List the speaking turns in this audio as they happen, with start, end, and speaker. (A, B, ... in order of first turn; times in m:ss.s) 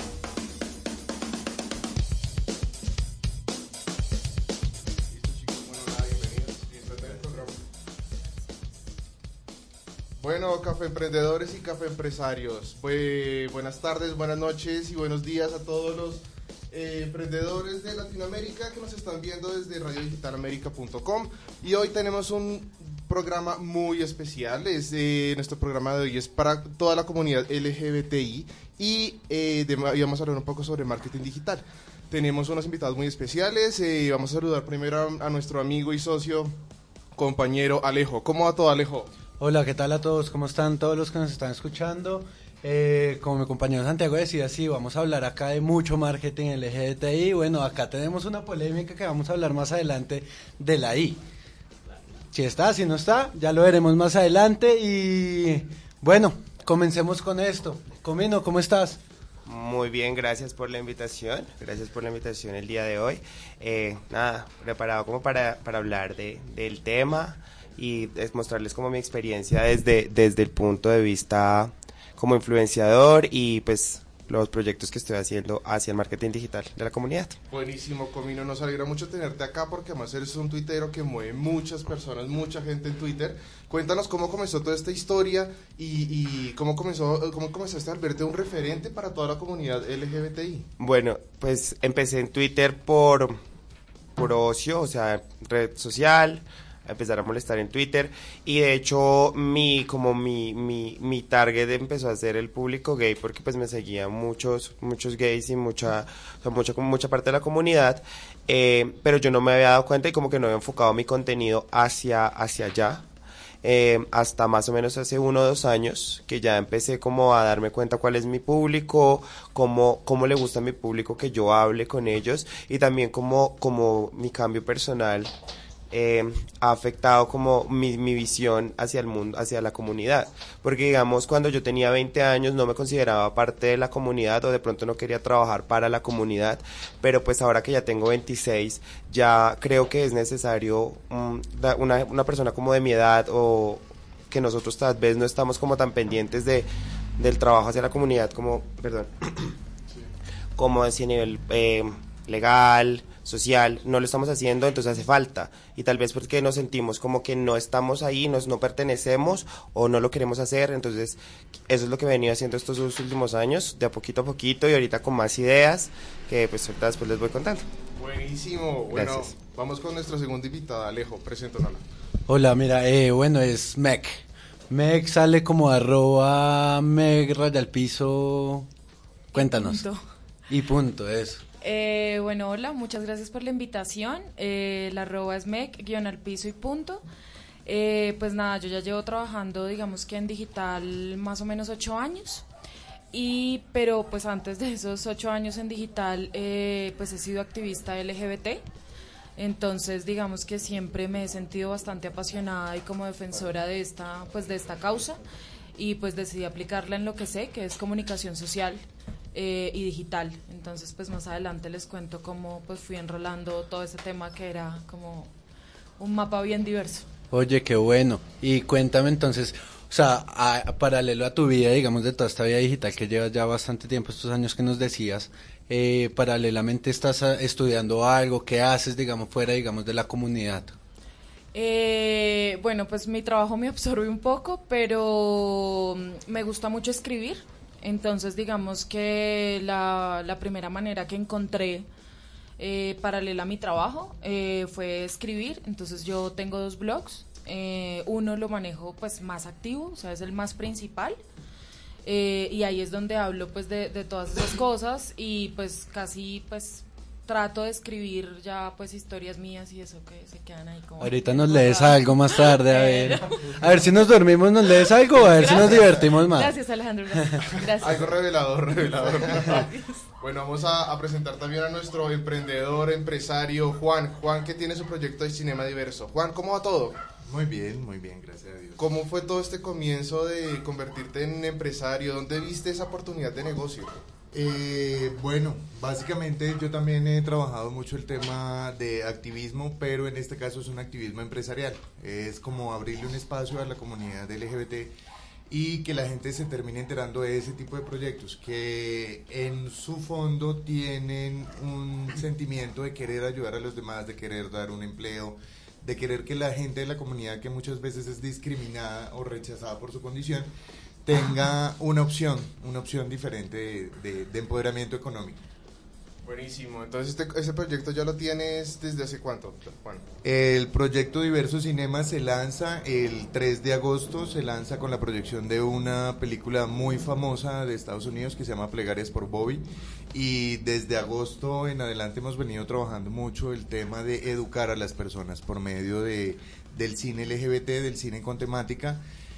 0:05.1-0:07.6 A
0:10.2-0:36.6 A
0:37.1-0:39.1 A
0:39.4-0:51.2 B
0:52.3-0:59.0 B
0:59.4-1:17.4 C
1:17.5-1:30.7 A
1:30.8-1:33.4 C
1:34.2-1:53.0 C
1:53.6-2:05.3 C
2:05.9-2:29.6 C
2:30.6-2:41.2 C
2:41.7-2:47.7 C
2:48.0-2:51.8 A
2:48.9-2:49.2 C
2:52.3-2:58.7 B
2:59.3-3:00.0 D
2:59.3-2:59.8 B
3:00.5-3:01.4 B
3:01.6-3:07.0 D
3:07.6-3:12.4 D
3:13.1-3:18.6 D
3:19.4-3:25.2 D
3:25.8-3:35.3 D
3:36.0-3:37.1 D
3:37.3-3:50.8 B
3:51.5-4:01.9 D
4:02.6-4:11.2 D
4:12.0-4:23.8 D
4:21.0-4:26.6 B
4:25.1-4:28.2 D
4:27.6-4:37.0 A
4:29.0-4:30.0 D
4:37.2-4:38.8 E
4:38.8-4:44.0 A
4:44.3-4:54.9 E
4:55.5-5:10.5 E
5:11.0-5:15.4 E
5:16.2-5:20.0 A
5:20.2-5:39.0 E